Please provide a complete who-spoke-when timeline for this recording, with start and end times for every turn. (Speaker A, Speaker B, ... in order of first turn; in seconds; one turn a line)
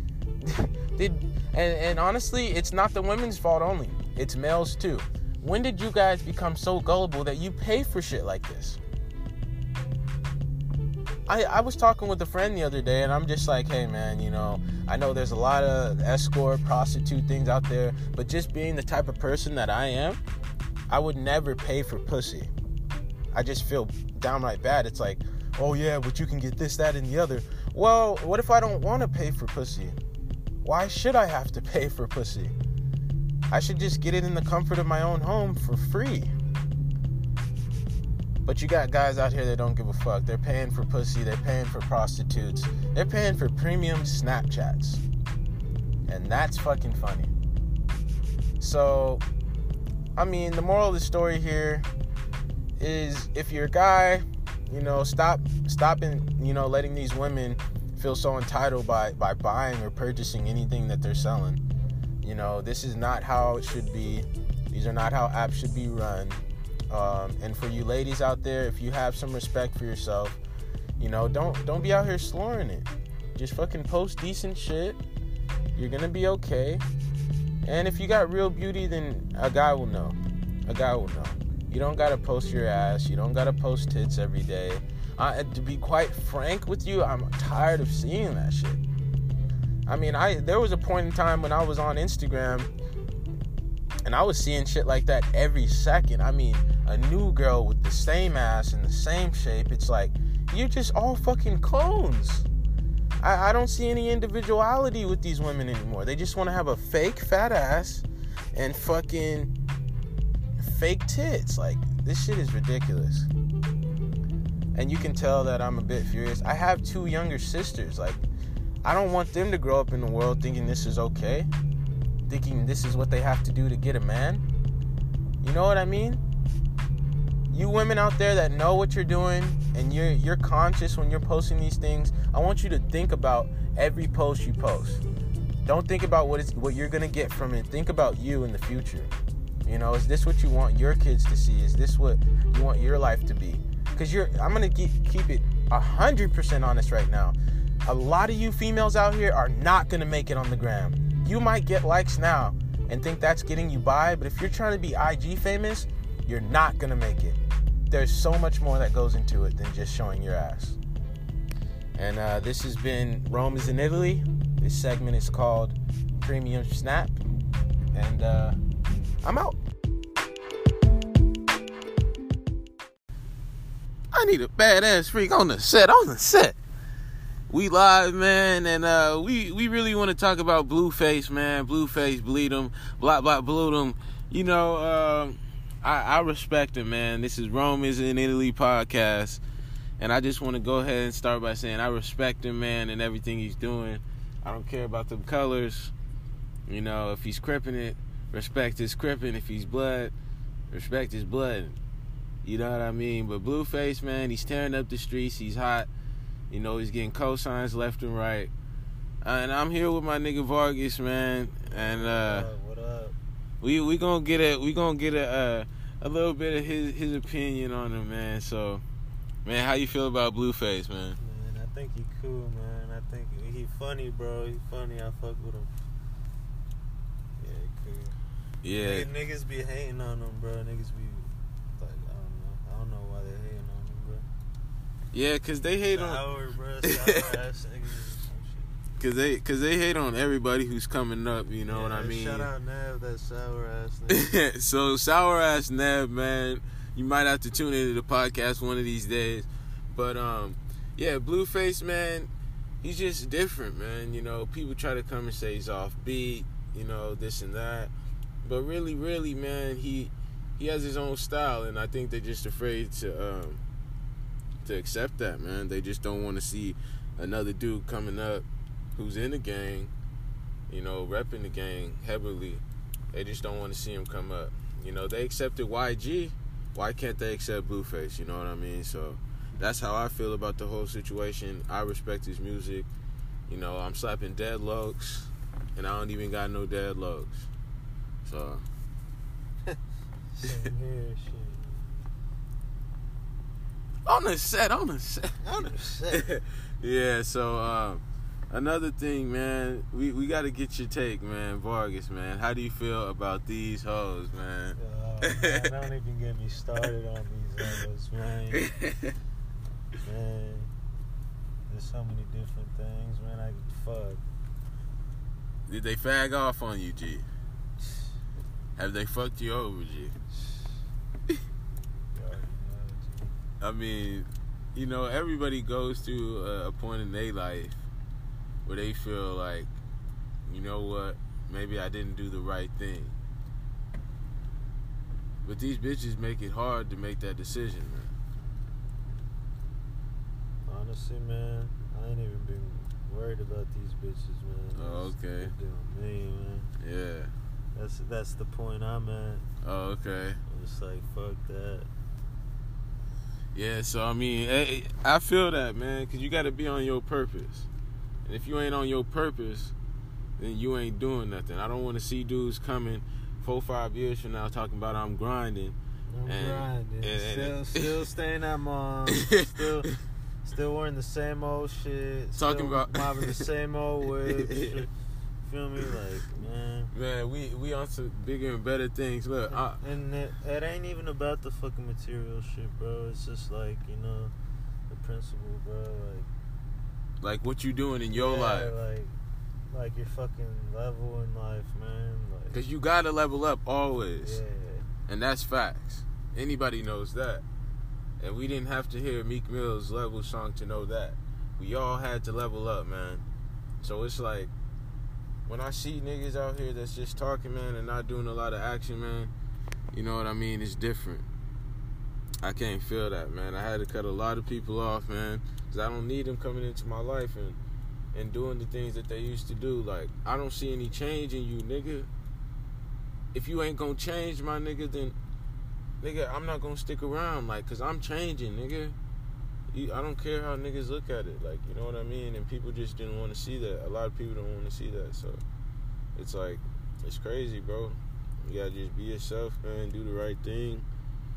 Speaker A: 0.4-8.8
Speaker A: 11.3-20.2
Speaker A: 20.9-22.5
Speaker A: 23.3-30.0
Speaker A: 30.6-32.5
Speaker A: 33.5-36.3
Speaker A: 38.4-45.0
Speaker A: 46.1-47.3
Speaker A: 48.6-49.2
Speaker A: 50.1-51.9
Speaker A: 52.8-61.6
Speaker A: 62.2-70.4
Speaker A: 71.0-75.0
Speaker A: 75.7-76.8
Speaker A: 77.6-88.8
Speaker A: 89.9-92.7
Speaker A: 94.0-102.5
Speaker A: 103.2-109.5
Speaker A: 110.6-113.3
Speaker A: 114.7-118.2
Speaker A: 118.8-121.5
Speaker A: 122.3-124.4
Speaker A: 125.4-126.2
Speaker A: 127.5-135.0
Speaker A: 135.6-139.1
Speaker A: 139.6-160.8
Speaker A: 161.9-167.2
Speaker A: 167.9-168.6
Speaker A: 169.2-169.6
Speaker A: 174.1-176.6
Speaker A: 177.5-189.4
Speaker A: 190.0-195.9
Speaker A: 196.7-200.1
Speaker A: 200.7-201.8
Speaker A: 202.4-205.9
Speaker A: 206.5-208.5
Speaker A: 209.2-212.5
Speaker B: 211.7-213.2
Speaker A: 213.6-218.8
Speaker A: 219.4-221.2
Speaker B: 221.2-225.7
Speaker B: 227.4-228.2
Speaker A: 228.6-229.1
Speaker B: 228.8-234.3
Speaker A: 235.1-236.2
Speaker B: 235.9-238.8
Speaker A: 236.8-237.3
Speaker A: 239.0-242.5
Speaker B: 241.7-244.3
Speaker A: 244.1-252.3
Speaker A: 252.8-257.9
Speaker A: 258.4-263.6
Speaker A: 264.6-269.9
Speaker A: 270.7-282.9
Speaker A: 283.5-287.5
Speaker A: 288.2-288.6
Speaker B: 290.3-291.9
Speaker A: 294.0-305.7
Speaker B: 295.4-296.4
Speaker B: 304.8-308.7
Speaker A: 308.6-309.1
Speaker B: 310.0-310.7
Speaker B: 311.7-314.2
Speaker A: 315.7-317.3
Speaker A: 318.8-320.1
Speaker B: 322.1-323.4
Speaker A: 323.6-327.8
Speaker A: 328.6-329.7
Speaker A: 330.4-333.1
Speaker A: 335.4-338.1
Speaker B: 340.6-346.7
Speaker A: 344.7-345.5
Speaker A: 346.8-347.3
Speaker B: 347.7-349.5
Speaker A: 349.6-350.4
Speaker B: 350.5-351.9
Speaker A: 353.5-357.7
Speaker A: 358.2-359.7
Speaker A: 360.4-367.9
Speaker B: 366.1-369.9
Speaker B: 370.4-376.9
Speaker A: 372.3-373.4
Speaker A: 374.4-374.8
Speaker A: 376.9-379.8
Speaker B: 379.5-384.3
Speaker B: 384.9-386.3
Speaker A: 387.2-388.7
Speaker B: 388.1-389.2
Speaker B: 389.7-392.6
Speaker A: 392.5-394.4
Speaker B: 394.2-394.9
Speaker A: 395.1-397.4
Speaker A: 398.2-403.2
Speaker A: 403.8-404.5
Speaker A: 405.4-409.3
Speaker A: 409.9-411.3
Speaker A: 412.4-417.6
Speaker A: 418.1-422.1
Speaker A: 423.3-425.2
Speaker A: 426.0-428.9
Speaker A: 429.7-435.4
Speaker A: 436.1-440.9